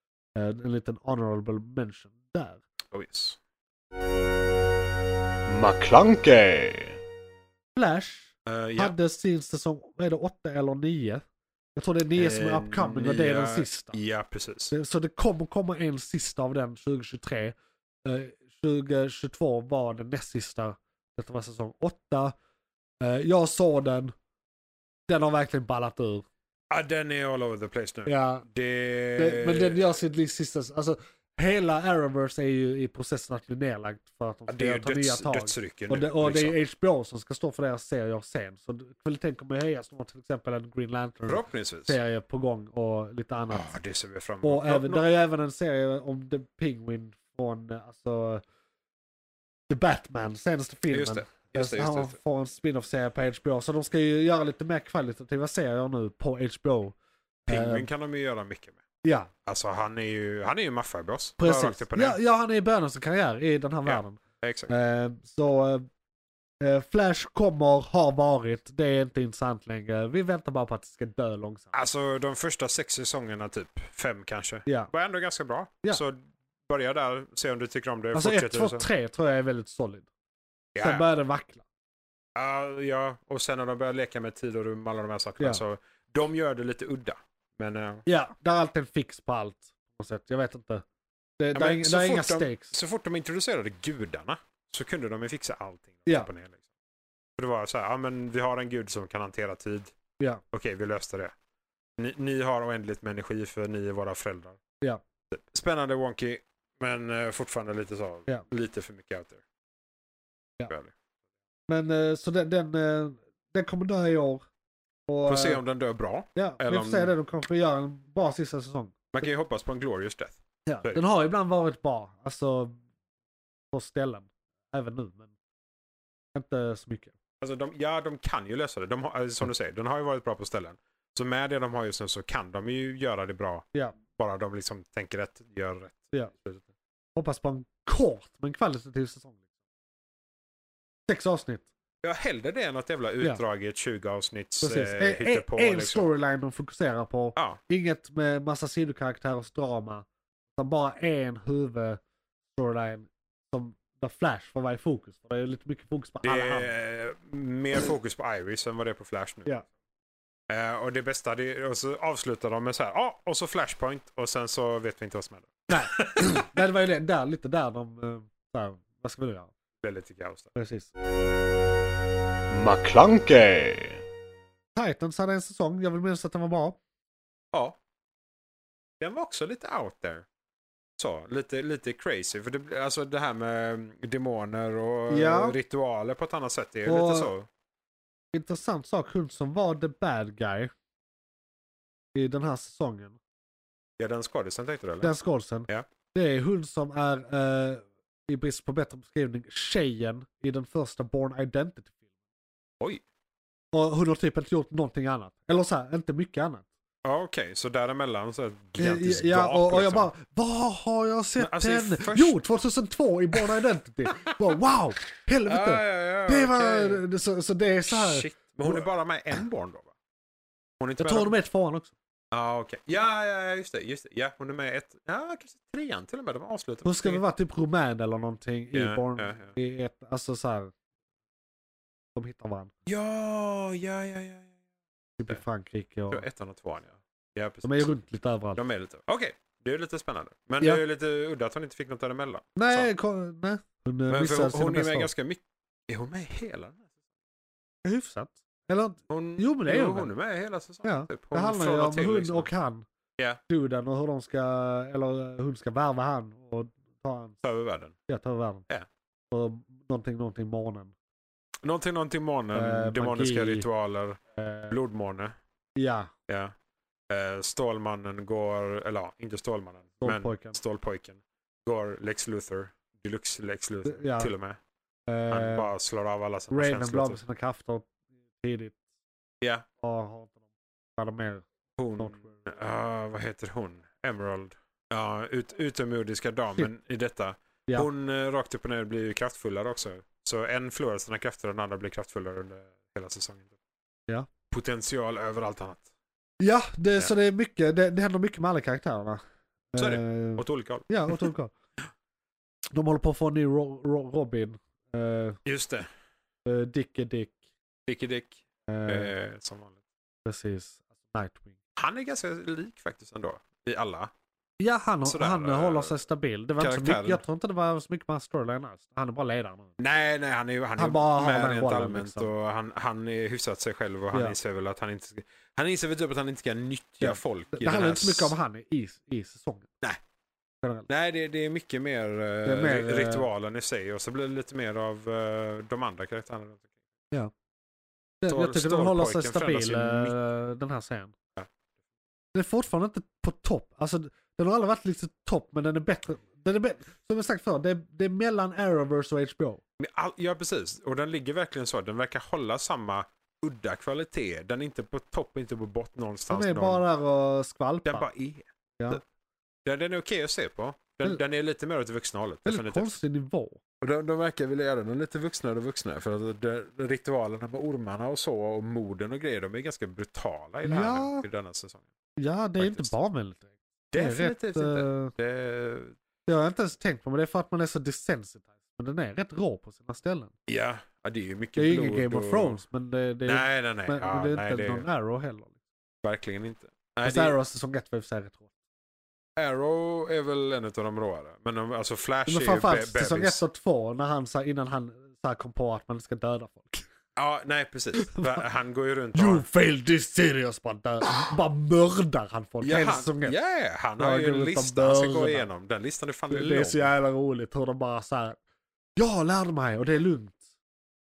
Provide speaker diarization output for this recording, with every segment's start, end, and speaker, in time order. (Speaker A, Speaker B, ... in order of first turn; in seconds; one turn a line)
Speaker A: 0.3-2.6
Speaker B: 2.9-3.4
Speaker C: 5.5-7.0
Speaker A: 7.8-11.2
Speaker B: 8.5-8.9
Speaker A: 11.8-14.0
Speaker B: 12.2-14.7
Speaker A: 14.7-22.4
Speaker A: 23.0-24.1
Speaker A: 25.1-26.3
Speaker B: 26.7-29.8
Speaker A: 28.1-28.5
Speaker A: 29.1-43.7
Speaker B: 34.5-36.6
Speaker B: 41.3-42.0
Speaker B: 43.5-45.1
Speaker A: 44.4-48.4
Speaker A: 49.7-57.0
Speaker B: 50.9-52.2
Speaker A: 57.5-57.9
Speaker B: 57.5-58.8
Speaker A: 59.0-59.3
Speaker B: 59.5-62.2
Speaker A: 61.4-65.9
Speaker B: 63.9-64.7
Speaker A: 66.6-71.7
Speaker B: 71.7-78.9
Speaker A: 74.7-74.9
Speaker A: 78.1-80.1
Speaker B: 80.8-81.1
Speaker A: 80.8-81.6
Speaker B: 82.3-88.0
Speaker A: 88.1-90.8
Speaker A: 91.4-92.8
Speaker B: 91.5-96.6
Speaker B: 97.4-99.9
Speaker B: 100.5-101.3
Speaker B: 102.0-104.6
Speaker B: 105.3-109.4
Speaker B: 110.7-110.9
Speaker A: 111.7-114.4
Speaker A: 115.1-115.6
Speaker B: 115.3-117.1
Speaker A: 116.3-119.2
Speaker B: 119.1-121.0
Speaker A: 120.7-122.8
Speaker A: 123.7-125.3
Speaker A: 126.3-127.2
Speaker B: 127.4-136.7
Speaker A: 137.2-139.4
Speaker A: 141.1-141.7
Speaker B: 142.0-146.1
Speaker A: 144.6-152.0
Speaker A: 152.6-156.7
Speaker B: 156.2-159.5
Speaker B: 160.5-166.4
Speaker A: 165.7-169.5
Speaker B: 169.8-170.5
Speaker A: 170.6-170.9
Speaker C: 172.5-174.0
Speaker A: 174.8-176.8
Speaker B: 179.0-180.3
Speaker B: 181.0-187.5
Speaker A: 185.1-185.6
Speaker A: 186.9-187.3
Speaker A: 188.3-190.7
Speaker A: 192.2-193.2
Speaker B: 194.0-195.1
Speaker A: 195.0-201.9
Speaker A: 203.7-206.7
Speaker B: 207.0-210.1
Speaker A: 208.8-218.9
Speaker B: 211.4-212.4
Speaker B: 215.5-217.0
Speaker B: 217.9-219.9
Speaker B: 220.8-221.3
Speaker A: 221.0-221.9
Speaker B: 222.3-227.2
Speaker A: 226.8-230.7
Speaker B: 228.7-229.5
Speaker A: 232.2-232.7
Speaker B: 232.9-234.5
Speaker A: 235.2-236.3
Speaker B: 236.1-237.9
Speaker A: 237.6-238.6
Speaker B: 238.6-242.9
Speaker A: 242.6-245.1
Speaker B: 244.1-246.9
Speaker A: 247.8-250.1
Speaker B: 249.1-252.5
Speaker A: 250.8-252.8
Speaker A: 253.5-257.4
Speaker B: 257.4-257.9
Speaker A: 258.1-258.7
Speaker A: 259.3-260.9
Speaker B: 261.6-264.2
Speaker A: 262.5-263.7
Speaker A: 264.4-264.8
Speaker B: 264.7-265.4
Speaker A: 265.8-266.1
Speaker B: 266.3-266.5
Speaker B: 267.1-274.6
Speaker A: 270.0-270.6
Speaker A: 273.9-274.3
Speaker A: 275.1-275.7
Speaker B: 275.3-277.2
Speaker A: 276.5-277.9
Speaker A: 278.4-278.8
Speaker A: 279.8-280.4
Speaker A: 281.0-281.4
Speaker B: 281.8-293.5
Speaker A: 282.0-282.4
Speaker B: 294.5-295.9
Speaker A: 296.4-299.2
Speaker A: 299.7-301.5
Speaker B: 299.8-301.3
Speaker A: 302.7-305.4
Speaker B: 305.4-305.9
Speaker A: 306.4-307.4
Speaker B: 307.9-309.8
Speaker A: 308.7-309.1
Speaker A: 310.2-311.6
Speaker B: 311.8-314.1
Speaker A: 314.6-319.8
Speaker B: 315.1-315.9
Speaker B: 316.6-317.2
Speaker B: 319.8-328.3
Speaker A: 320.8-322.3
Speaker A: 327.0-329.7
Speaker A: 330.6-330.9
Speaker B: 330.9-336.7
Speaker A: 332.4-333.3
Speaker A: 338.2-341.1
Speaker B: 338.3-340.2
Speaker A: 342.3-349.6
Speaker B: 349.8-356.8
Speaker A: 356.3-358.1
Speaker B: 357.9-359.0
Speaker B: 359.6-362.9
Speaker A: 362.5-363.6
Speaker B: 363.8-371.9
Speaker A: 370.6-371.2
Speaker A: 372.2-375.1
Speaker B: 372.6-372.9
Speaker B: 373.9-375.9
Speaker A: 376.3-380.3
Speaker B: 380.5-382.6
Speaker A: 381.6-385.5
Speaker B: 383.3-384.9
Speaker B: 386.0-387.4
Speaker A: 387.0-388.5
Speaker B: 389.4-393.4
Speaker A: 392.3-396.9
Speaker B: 397.2-399.4
Speaker A: 398.0-398.4
Speaker A: 399.1-403.4
Speaker B: 402.6-406.9
Speaker A: 404.0-405.5
Speaker A: 406.3-408.4
Speaker A: 409.0-410.4